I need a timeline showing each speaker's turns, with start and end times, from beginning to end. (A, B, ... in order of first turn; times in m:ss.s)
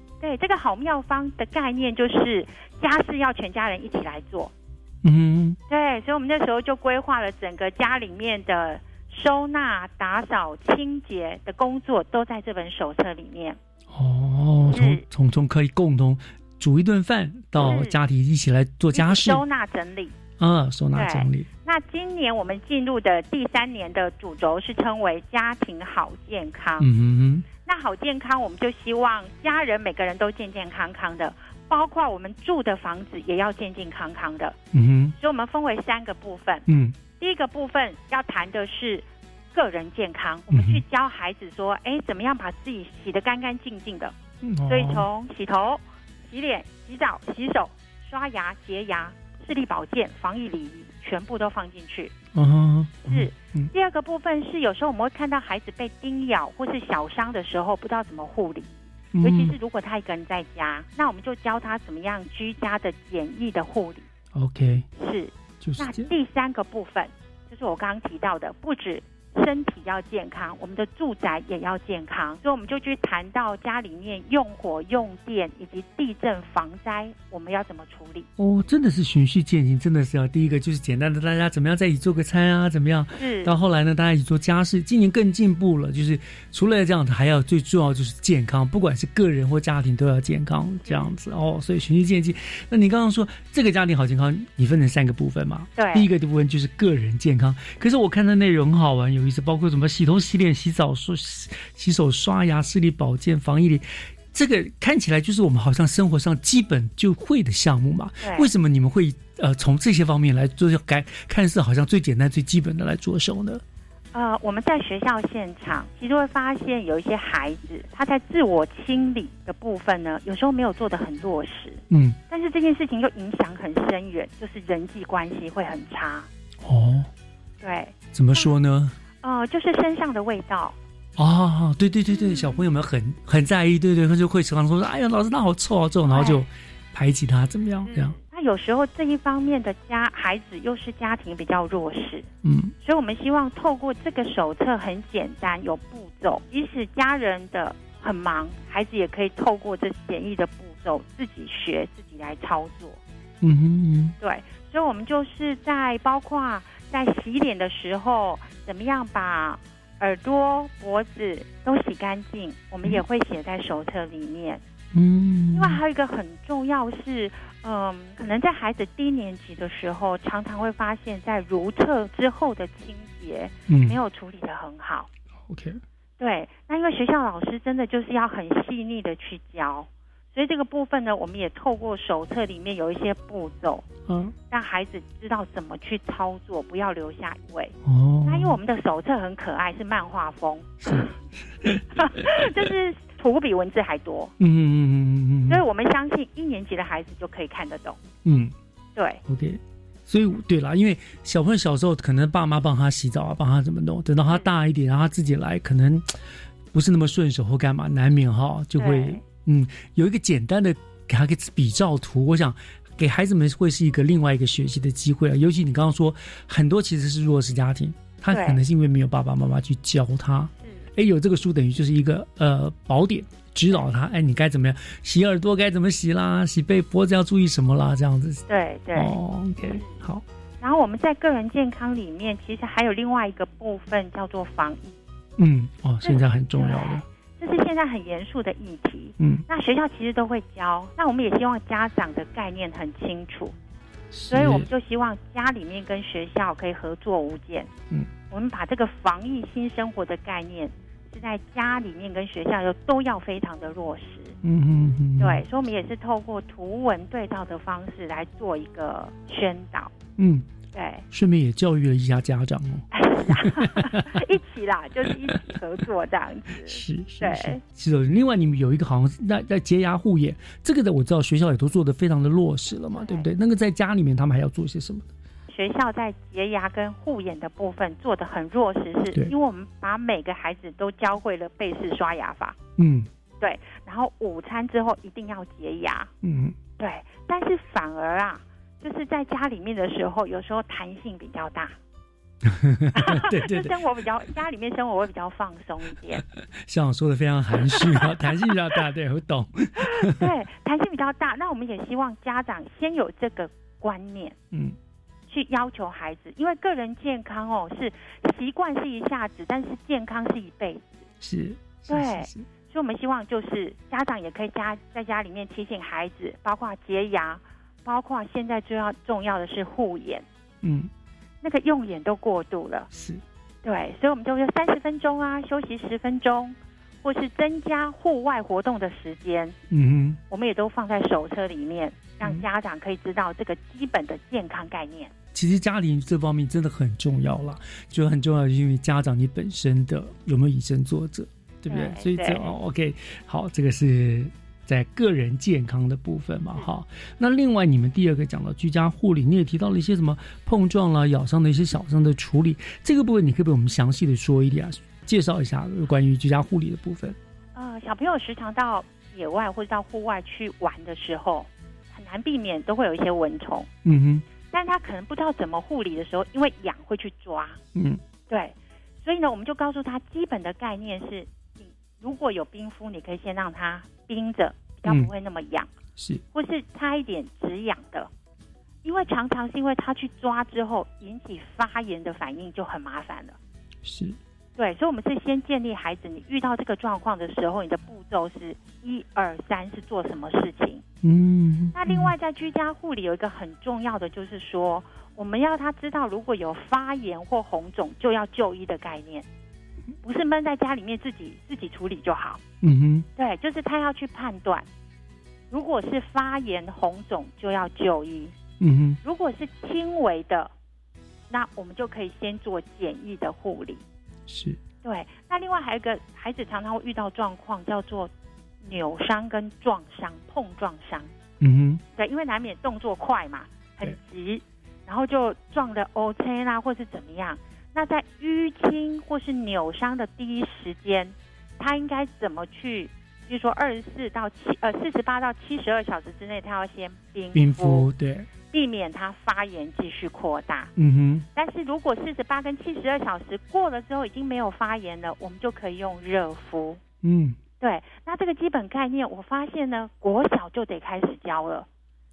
0:00.2-0:04.5 A
0:05.0-0:05.6 B
0:05.7-0:13.6 A
0:13.9-0:19.4 B
0:14.7-0:15.0 A
0:17.6-0:18.0 A
0:18.9-0:20.2 A
0:20.4-0:21.5 B
0:20.9-0:26.9 A
0:26.8-0:27.5 B
0:27.5-0:34.6 A
0:34.7-0:35.1 B
0:35.2-0:44.1 A
0:36.7-0:37.0 B
0:40.5-0:40.8 B
0:44.4-0:45.0 B
0:44.7-0:52.1 A
0:52.3-0:53.7 B
0:53.0-1:04.1 A
0:59.1-0:59.6 B
1:04.3-1:04.9 B
1:05.0-1:18.3 A
1:05.6-1:06.1 B
1:18.4-1:53.6 B
1:23.2-1:23.5 A
1:30.8-1:31.1 A
1:35.8-1:36.1 A
1:48.2-1:48.5 A
1:54.1-2:06.3 A
2:01.9-2:02.2 B
2:06.6-2:07.1 B
2:07.6-2:08.5 A
2:08.1-2:09.0 B
2:09.2-2:10.8 A
2:11.2-2:18.2 B
2:12.1-2:12.6 A
2:16.1-2:16.4 A
2:17.8-2:22.3 A
2:22.4-2:22.7 B
2:22.8-2:33.0 A
2:33.4-2:34.1 B
2:34.2-2:44.6 A
2:44.9-2:45.8 B
2:45.5-2:55.1 A
2:53.7-2:54.0 B
2:55.5-2:55.8 B
2:56.2-3:03.9 A
3:04.1-3:04.3 B
3:04.5-3:07.7 A
3:07.8-3:08.6 B
3:08.3-3:11.0 A
3:10.8-3:11.1 B
3:12.0-3:14.3 A
3:14.4-3:15.6 B
3:15.5-3:18.0 A
3:18.2-3:18.5 B
3:19.3-3:26.1 B
3:26.7-3:48.4 B
3:28.8-3:29.2 A
3:38.3-3:38.6 A
3:40.6-3:40.8 A
3:48.5-3:50.0 A
3:48.9-3:50.2 B
3:50.6-3:55.0 A
3:55.4-3:57.0 B
3:56.0-4:03.5 A
4:04.1-4:04.7 B
4:04.3-4:07.7 A
4:08.3-4:14.4 A
4:14.4-4:15.4 B
4:15.2-4:19.9 A
4:20.2-4:20.5 B
4:20.7-4:21.0 A
4:21.1-4:24.2 B
4:22.9-4:27.6 A
4:26.6-4:35.1 B
4:32.9-4:33.3 A
4:35.5-4:42.6 A
4:42.8-4:43.1 B
4:43.4-4:46.1 A
4:46.2-4:46.6 B
4:46.8-4:51.7 A
4:52.4-4:53.7 B
4:53.0-4:56.2 A
4:56.7-5:00.3 B
4:57.7-4:58.1 A
5:00.0-5:04.3 A
5:05.3-5:11.0 A
5:11.2-5:12.4 B
5:11.9-5:20.2 A
5:20.6-5:20.9 B
5:21.4-5:22.9 A
5:22.9-5:23.2 B
5:23.6-5:29.6 A
5:29.7-5:30.2 B
5:30.3-5:35.1 A
5:35.3-5:57.2 B
5:41.7-5:42.5 A
5:57.5-6:03.7 A
6:03.8-6:04.2 B
6:04.4-6:07.6 A
6:07.7-6:08.0 B
6:08.3-6:15.7 A
6:14.8-6:15.1 B
6:16.0-6:16.2 B
6:16.3-6:18.1 A
6:18.8-6:23.4 A
6:23.8-6:24.2 B
6:24.6-6:30.8 A
6:31.0-6:32.2 B
6:31.7-6:39.2 A
6:40.0-6:42.4 A
6:42.6-6:43.1 B
6:43.2-6:44.6 A
6:45.5-6:48.3 A
6:48.6-6:49.0 B
6:49.0-6:50.5 A
6:51.3-6:53.8 A
6:54.3-6:54.6 B
6:54.8-6:58.1 A
6:58.6-7:01.1 A
7:01.4-7:01.8 B
7:01.9-7:20.7 A
7:17.3-7:18.3 B
7:20.8-7:21.2 B
7:21.3-7:26.8 A
7:27.0-7:27.4 B
7:27.6-7:31.6 A